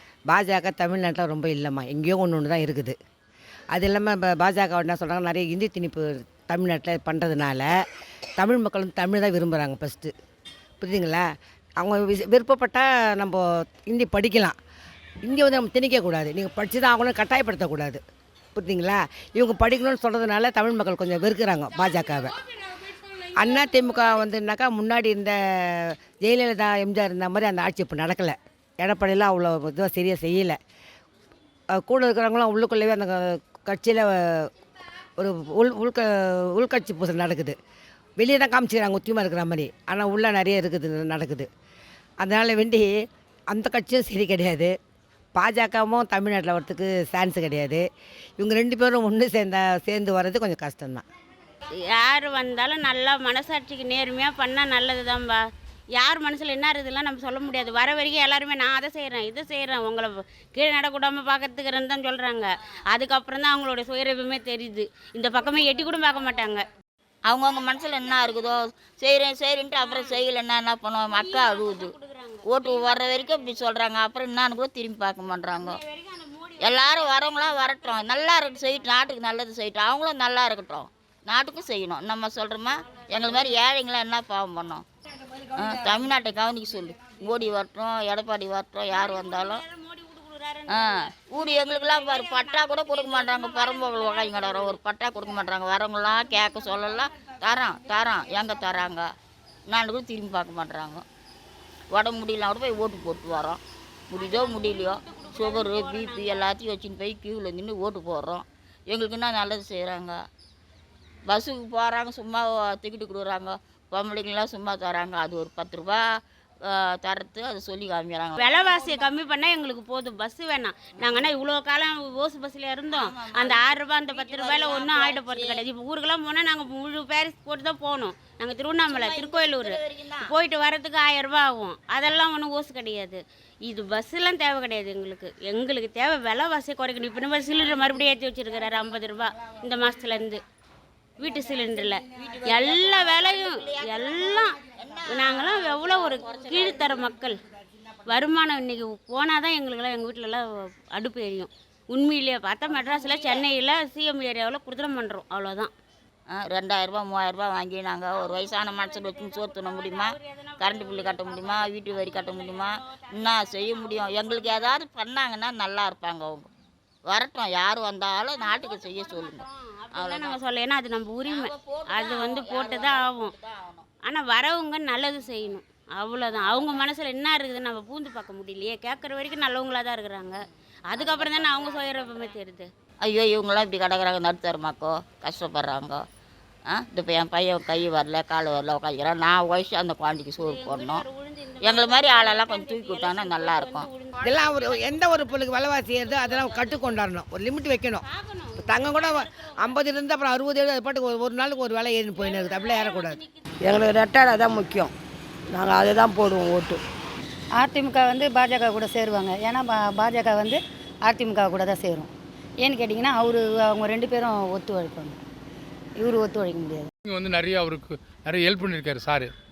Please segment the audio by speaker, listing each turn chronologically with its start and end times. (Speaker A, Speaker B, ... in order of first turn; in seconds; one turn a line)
Speaker A: 0.3-2.9
Speaker A: 3.7-7.7
Speaker A: 8.4-10.1
Speaker A: 10.8-11.2
Speaker A: 11.8-14.5
Speaker A: 15.2-18.0
Speaker A: 18.6-22.3
Speaker A: 23.4-30.6
Speaker A: 31.7-34.5
Speaker A: 35.2-37.5
Speaker A: 38.2-41.5
Speaker A: 42.2-42.9
Speaker A: 43.5-44.7
Speaker A: 45.3-47.8
Speaker A: 48.4-51.0
Speaker B: 51.9-55.4
Speaker B: 55.9-66.6
Speaker C: 67.3-71.9
Speaker B: 69.8-70.2
Speaker B: 71.1-73.3
Speaker C: 72.4-75.8
Speaker B: 75.6-78.7
Speaker C: 76.6-84.8
Speaker C: 85.5-89.6
Speaker B: 88.9-94.8
Speaker C: 90.7-99.1
Speaker C: 99.7-101.0
Speaker C: 101.9-110.2
Speaker B: 104.2-106.5
Speaker C: 111.3-116.0
Speaker C: 116.7-119.1
Speaker B: 118.4-140.4
Speaker C: 121.0-121.3
Speaker C: 122.9-125.6
Speaker C: 128.9-130.3
Speaker B: 141.2-147.3
Speaker C: 142.3-147.1
Speaker B: 148.1-150.4
Speaker B: 150.9-155.7
Speaker C: 152.8-153.4
Speaker C: 156.3-166.5
Speaker B: 158.3-164.8
Speaker C: 167.1-170.4
Speaker B: 168.4-173.3
Speaker C: 171.2-173.8
Speaker B: 174.0-180.3
Speaker C: 176.4-176.7
Speaker B: 180.9-182.7
Speaker C: 180.9-182.4
Speaker C: 183.0-186.0
Speaker C: 186.7-191.1
Speaker B: 190.4-194.9
Speaker C: 191.6-193.9
Speaker A: 194.2-198.0
Speaker B: 196.3-196.8
Speaker B: 198.0-199.6
Speaker A: 198.6-203.2
Speaker B: 202.3-203.2
Speaker D: 203.6-204.9
Speaker D: 205.5-206.8
Speaker E: 207.5-212.1
Speaker E: 212.6-215.2
Speaker E: 215.9-216.9
Speaker F: 217.1-219.3